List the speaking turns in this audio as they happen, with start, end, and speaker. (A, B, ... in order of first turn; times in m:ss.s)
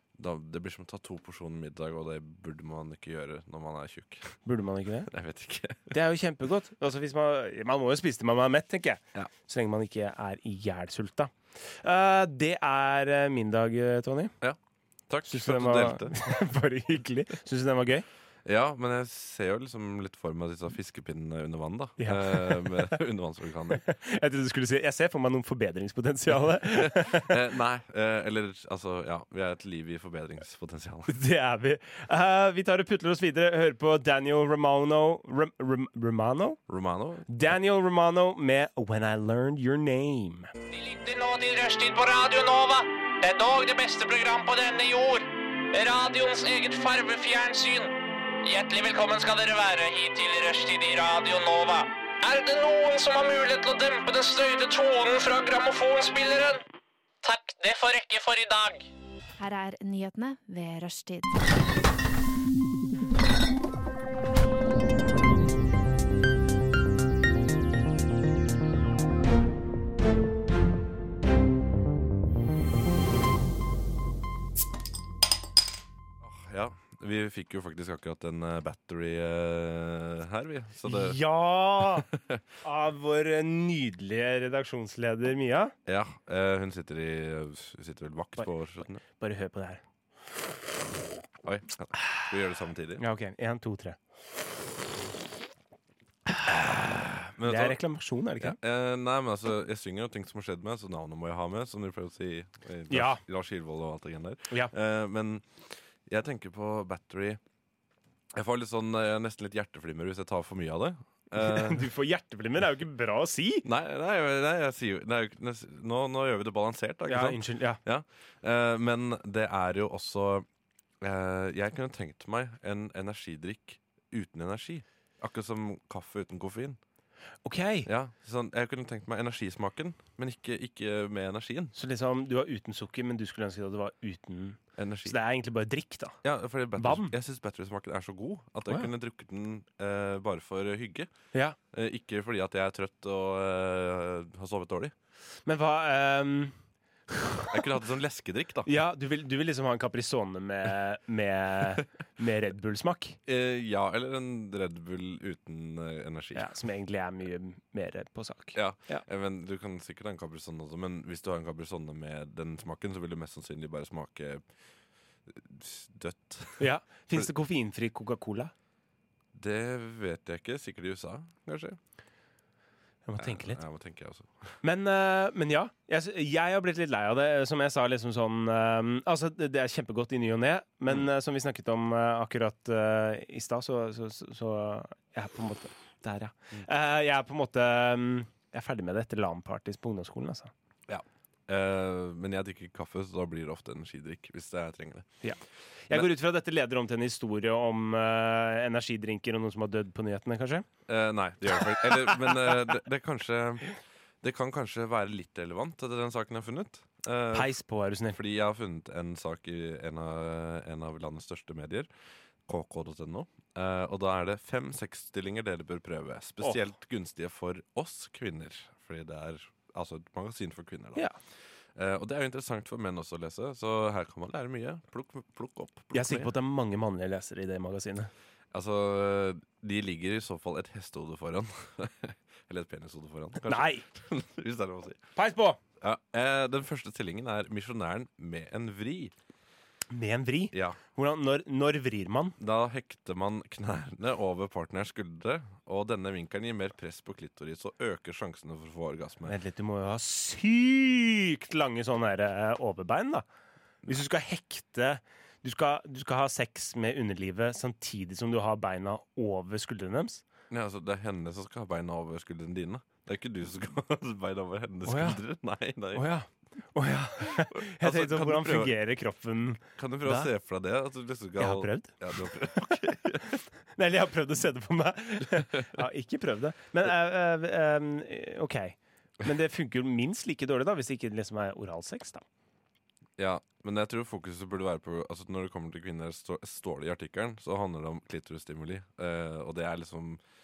0:00.2-0:04.4 A
0:04.4-0:05.1 B
0:05.1-0:06.0 A
0:05.9-0:14.3 B
0:15.1-0:16.2 A
0:15.3-0:18.0 B
0:18.4-0:23.8 A
0:22.0-0:22.9 B
0:23.7-0:27.4 B
0:26.7-0:31.1 A
0:31.1-0:36.6 B
0:36.7-0:37.3 A
0:37.3-0:40.5 B
0:40.7-0:56.6 C
0:57.2-0:58.9 C
0:59.4-1:01.4 D
1:16.2-1:21.2 A
1:20.8-1:22.1 B
1:22.0-1:22.4 A
1:22.6-1:25.8 B
1:25.9-1:29.0 A
1:29.0-1:29.8 B
1:31.4-1:33.0 A
1:33.0-1:34.0 B
1:36.4-1:37.8 A
1:37.4-1:38.6 B
1:38.4-1:47.4 A
1:42.9-1:43.2 B
1:48.3-1:51.9 A
1:51.3-1:53.6 B
1:53.6-2:00.4 A
1:57.1-1:57.8 B
2:01.0-2:06.8 A
2:07.4-2:07.9 B
2:07.9-2:11.7 A
2:11.8-2:16.2 B
2:14.8-2:15.2 A
2:16.2-2:21.1 A
2:16.8-2:17.1 B
2:21.7-2:24.9 A
2:25.4-2:26.5 B
2:27.1-2:27.6 B
2:27.5-2:28.7 A
2:28.6-2:33.2 B
2:33.2-2:36.5 A
2:36.3-2:39.0 B
2:38.5-2:44.4 A
2:45.3-2:47.3 A
2:46.6-2:48.5 B
2:49.3-2:51.8 A
2:53.0-2:53.6 B
2:53.2-2:54.6 A
2:54.6-3:10.5 B
3:10.9-3:15.1 A
3:15.2-3:20.7 B
3:20.9-3:23.7 A
3:21.5-3:22.5 B
3:24.2-3:27.5 A
3:27.3-3:28.2 B
3:28.1-3:31.9 A
3:32.5-3:41.0 A
3:41.8-3:46.3 A
3:45.9-3:48.1 B
3:48.5-3:55.0 A
3:53.4-3:53.8 B
3:55.2-3:55.6 B
3:55.8-3:59.1 A
3:59.9-4:02.4 B
4:00.5-4:00.8 A
4:02.4-4:09.3 A
4:09.2-4:13.2 B
4:13.8-4:20.2 B
4:20.5-4:26.1 A
4:24.8-4:25.2 B
4:25.9-4:30.3 B
4:27.2-4:28.8 A
4:29.8-4:33.4 A
4:31.4-4:32.0 B
4:33.8-4:42.2 B
4:43.2-4:50.2 A